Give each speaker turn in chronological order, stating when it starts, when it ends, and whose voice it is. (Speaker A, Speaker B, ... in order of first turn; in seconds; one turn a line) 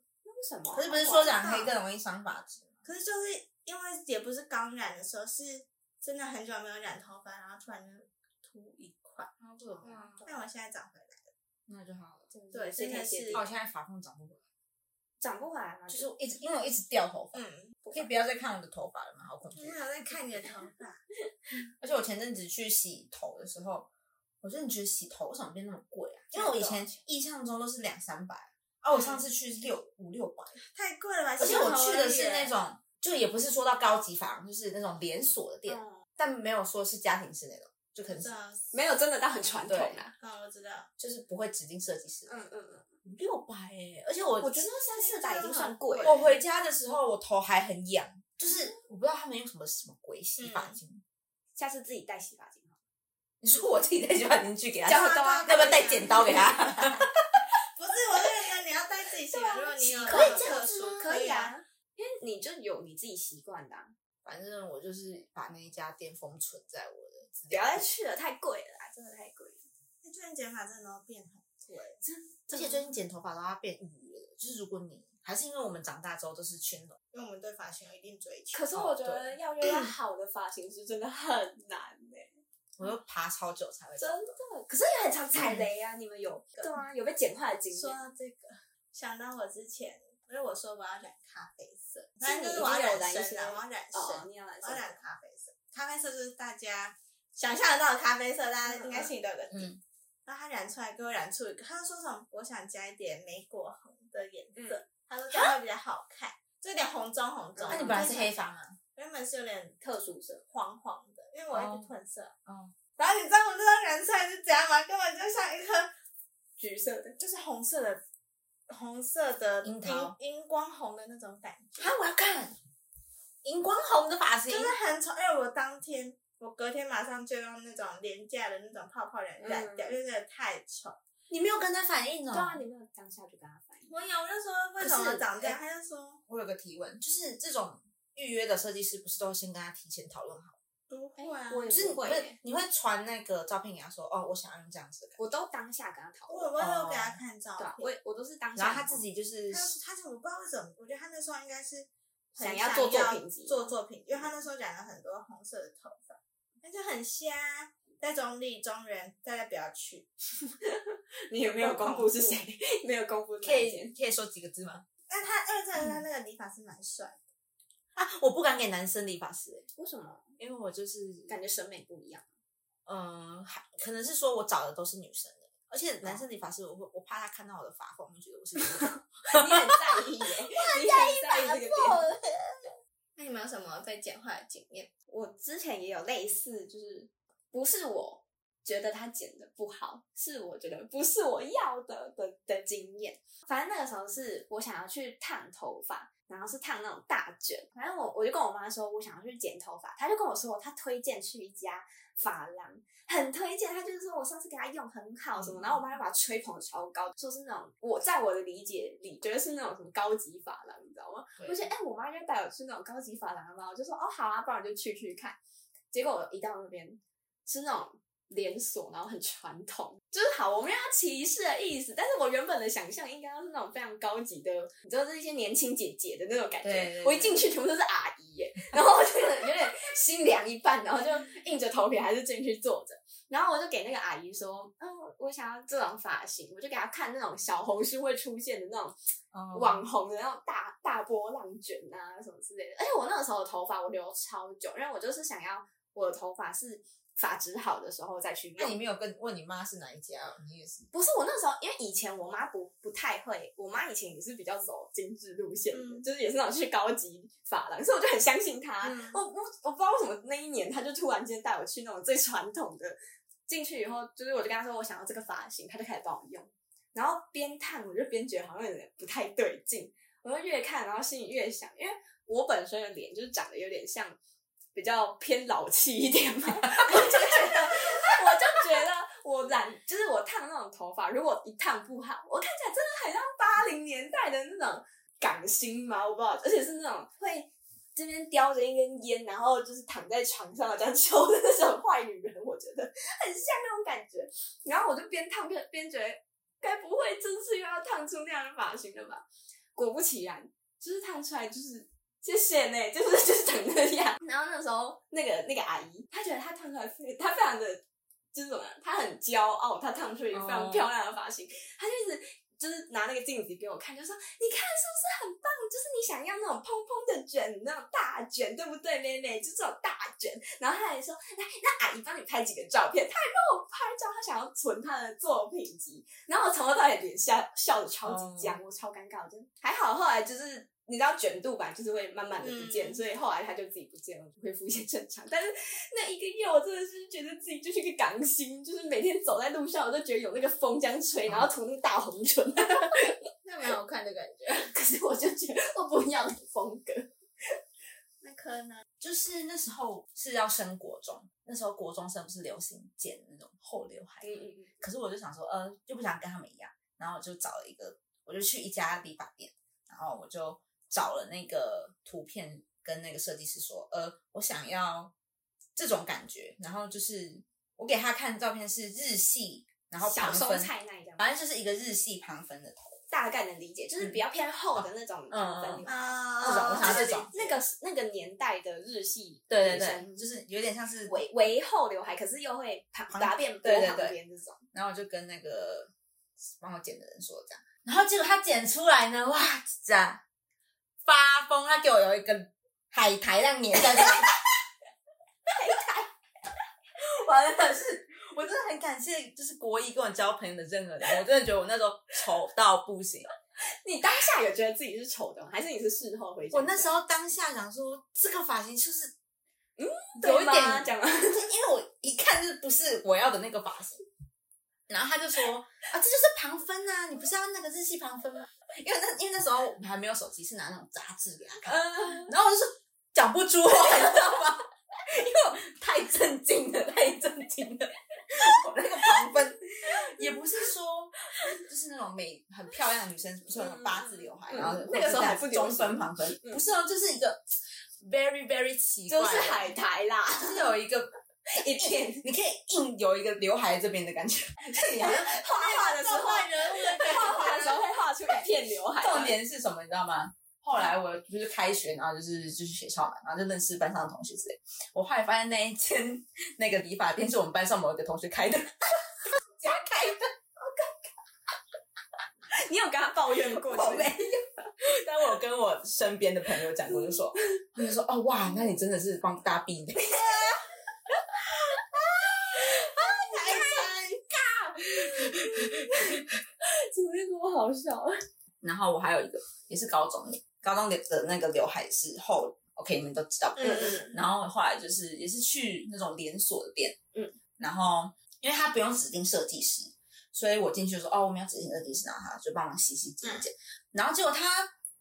Speaker A: 0.2-1.4
Speaker B: 0.7-2.8
Speaker C: 1.2-1.7
Speaker C: 2.9-11.3
Speaker B: 9.6-10.2
Speaker A: 9.8-10.3
Speaker B: 11.7-12.3
Speaker A: 12.3-13.4
Speaker C: 12.5-13.4
Speaker B: 13.3-14.4
Speaker A: 15.2-16.1
Speaker B: 15.9-19.8
Speaker C: 17.3-17.8
Speaker A: 17.8-18.1
Speaker C: 19.6-21.0
Speaker B: 21.8-23.9
Speaker B: 24.4-30.6
Speaker A: 26.3-27.0
Speaker C: 30.7-32.5
Speaker B: 31.4-38.3
Speaker A: 35.7-36.0
Speaker C: 38.1-38.7
Speaker A: 38.7-40.1
Speaker B: 39.7-40.0
Speaker C: 40.2-40.9
Speaker B: 41.0-42.4
Speaker A: 42.3-42.9
Speaker B: 43.0-44.7
Speaker A: 44.4-46.2
Speaker C: 44.9-46.3
Speaker B: 46.0-51.0
Speaker C: 50.4-50.8
Speaker A: 51.6-52.8
Speaker B: 53.4-57.5
Speaker A: 54.9-56.5
Speaker C: 54.9-56.5
Speaker C: 57.8-61.6
Speaker B: 59.8-61.1
Speaker A: 59.9-63.9
Speaker B: 64.2-67.9
Speaker A: 67.5-69.6
Speaker C: 70.0-72.0
Speaker B: 72.0-77.0
Speaker C: 77.1-78.7
Speaker A: 78.5-82.4
Speaker B: 78.7-79.9
Speaker B: 82.8-84.3
Speaker A: 84.0-88.0
Speaker B: 85.4-85.6
Speaker C: 87.7-99.7
Speaker A: 92.2-94.9
Speaker A: 98.7-99.0
Speaker B: 99.5-99.8
Speaker C: 100.3-108.3
Speaker A: 104.6-104.8
Speaker A: 107.6-108.0
Speaker B: 107.7-108.8
Speaker C: 109.0-109.8
Speaker A: 109.8-110.4
Speaker C: 110.5-112.4
Speaker B: 111.5-111.9
Speaker B: 112.5-112.7
Speaker C: 113.0-115.9
Speaker A: 116.6-117.2
Speaker C: 117.2-118.0
Speaker C: 118.7-121.9
Speaker B: 119.6-120.2
Speaker B: 121.8-122.6
Speaker B: 123.4-124.7
Speaker C: 124.5-131.0
Speaker A: 129.4-129.9
Speaker B: 131.3-132.6
Speaker A: 132.3-133.9
Speaker C: 133.9-136.2
Speaker B: 134.8-135.6
Speaker B: 136.3-140.6
Speaker C: 140.9-141.8
Speaker A: 141.2-142.4
Speaker B: 141.7-145.2
Speaker A: 145.2-146.5
Speaker C: 146.3-147.9
Speaker B: 146.6-147.2
Speaker A: 147.6-149.0
Speaker B: 148.6-149.7
Speaker C: 149.5-160.1
Speaker A: 152.4-153.7
Speaker A: 160.5-163.9
Speaker C: 161.5-162.3
Speaker B: 163.4-164.8
Speaker C: 165.1-167.2
Speaker B: 167.9-169.7
Speaker A: 169.8-170.3
Speaker B: 170.4-171.3
Speaker A: 171.3-172.2
Speaker B: 172.9-180.0
Speaker A: 179.3-182.1
Speaker B: 180.6-182.3
Speaker C: 183.2-184.9
Speaker A: 185.1-215.4
Speaker B: 205.4-205.8
Speaker B: 211.4-211.7
Speaker A: 215.9-239.0
Speaker B: 226.6-227.5
Speaker B: 239.3-239.8
Speaker A: 239.5-248.8
Speaker B: 248.6-250.9
Speaker A: 250.9-274.2
Speaker C: 255.7-256.1
Speaker C: 258.8-259.2
Speaker A: 274.8-307.8
Speaker B: 276.6-278.1
Speaker A: 308.3-343.2
Speaker B: 310.3-310.9
Speaker B: 328.1-328.6
Speaker C: 332.4-333.0
Speaker C: 343.4-344.7
Speaker A: 344.6-347.1
Speaker C: 348.2-348.9
Speaker B: 349.0-365.1
Speaker A: 354.2-354.7
Speaker B: 365.8-373.0
Speaker A: 370.0-371.2
Speaker A: 373.1-380.3
Speaker B: 374.8-375.9
Speaker C: 375.9-377.6
Speaker B: 376.4-377.3
Speaker B: 379.5-381.3
Speaker A: 381.1-384.6
Speaker B: 383.1-384.2
Speaker B: 384.7-385.9
Speaker B: 386.6-390.2
Speaker B: 391.1-394.4
Speaker A: 395.5-396.1
Speaker B: 397.0-403.3
Speaker A: 403.8-406.9
Speaker B: 406.5-409.1
Speaker A: 409.8-411.4
Speaker B: 410.2-414.0
Speaker B: 414.9-437.5
Speaker A: 421.6-422.3
Speaker A: 433.6-436.6
Speaker B: 438.0-439.7
Speaker A: 439.1-440.7
Speaker B: 440.4-441.1
Speaker A: 441.5-442.3
Speaker B: 441.8-445.3
Speaker A: 444.7-449.4
Speaker C: 445.1-447.9
Speaker B: 449.0-460.3
Speaker A: 460.6-461.1
Speaker A: 462.5-464.2
Speaker B: 463.6-470.3
Speaker C: 470.1-470.5
Speaker B: 471.5-473.9
Speaker C: 473.3-474.1
Speaker B: 474.8-476.2
Speaker A: 474.8-478.2
Speaker B: 478.6-487.0
Speaker C: 483.6-484.2
Speaker A: 483.6-484.0
Speaker B: 487.6-494.7